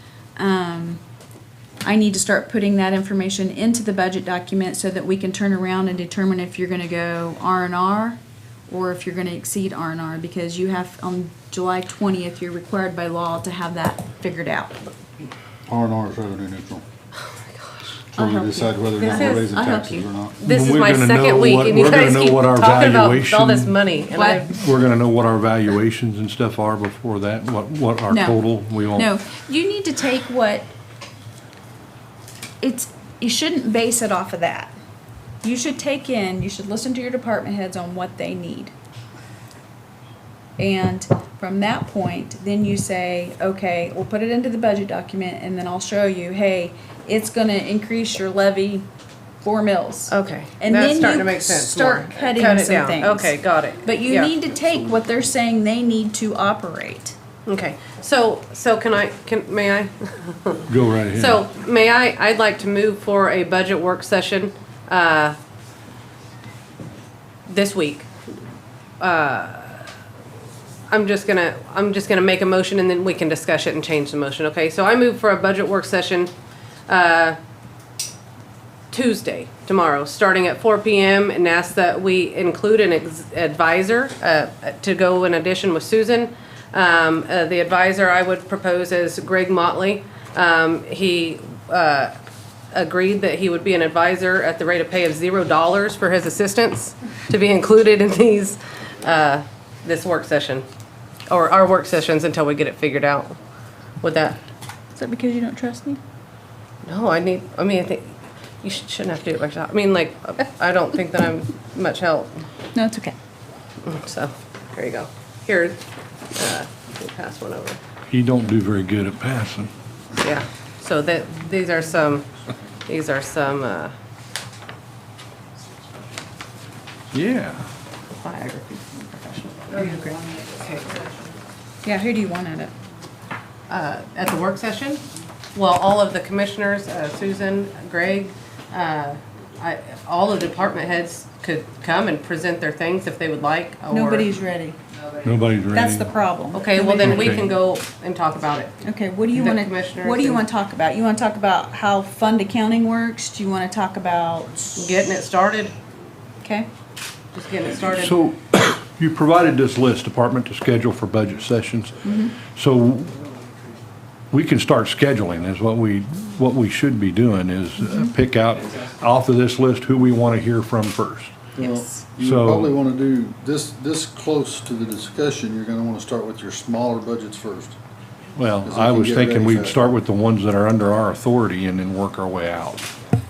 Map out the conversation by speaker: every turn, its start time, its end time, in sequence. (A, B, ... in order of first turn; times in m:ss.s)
0:00.4-0:01.0 A
0:01.8-0:14.8 A
0:15.7-0:16.8 B
0:17.2-0:18.0 C
0:18.1-0:20.4 B
0:18.1-0:20.1 A
0:19.0-0:19.5 C
0:20.4-0:24.5 C
0:20.4-0:23.8 D
0:24.1-0:24.5 A
0:24.4-0:29.1 D
0:28.1-0:30.7 A
0:32.6-0:34.7 A
0:35.4-0:38.7 A
0:40.6-0:48.8 A
0:49.4-0:57.2 A
0:50.1-0:54.3 C
0:57.5-1:05.4 C
1:00.7-1:01.4 D
1:07.5-1:08.1 C
1:09.0-1:09.9 C
1:10.9-1:16.3 C
1:16.9-1:17.4 C
1:18.9-1:32.1 C
1:32.7-1:40.6 C
1:41.3-1:43.4 C
1:44.0-1:44.4 C
1:45.0-1:46.0 A
1:46.8-1:52.4 C
1:52.8-1:53.2 A
1:53.8-1:55.8 C
1:56.3-1:57.8 C
1:58.1-1:59.7 D
2:00.2-2:02.3 C
2:02.9-2:03.9 C
2:07.1-2:07.6 D
2:08.2-2:11.1 C
2:09.7-2:10.2 A
2:11.8-2:12.7 A
2:13.7-2:24.3 C
2:23.9-2:24.8 A
2:25.2-2:26.1 D
2:25.7-2:27.6 A
2:26.5-2:28.7 C
2:27.0-2:27.6 D
2:28.8-2:35.0 A
2:29.3-2:30.4 C
2:34.8-2:35.8 C
2:36.4-2:36.7 A
2:37.3-2:38.2 C
2:38.0-2:43.2 D
2:42.0-2:42.4 A
2:44.3-2:51.5 D
2:51.5-2:57.8 B
2:52.2-2:52.7 D
2:58.4-3:02.9 D
2:58.6-2:59.9 B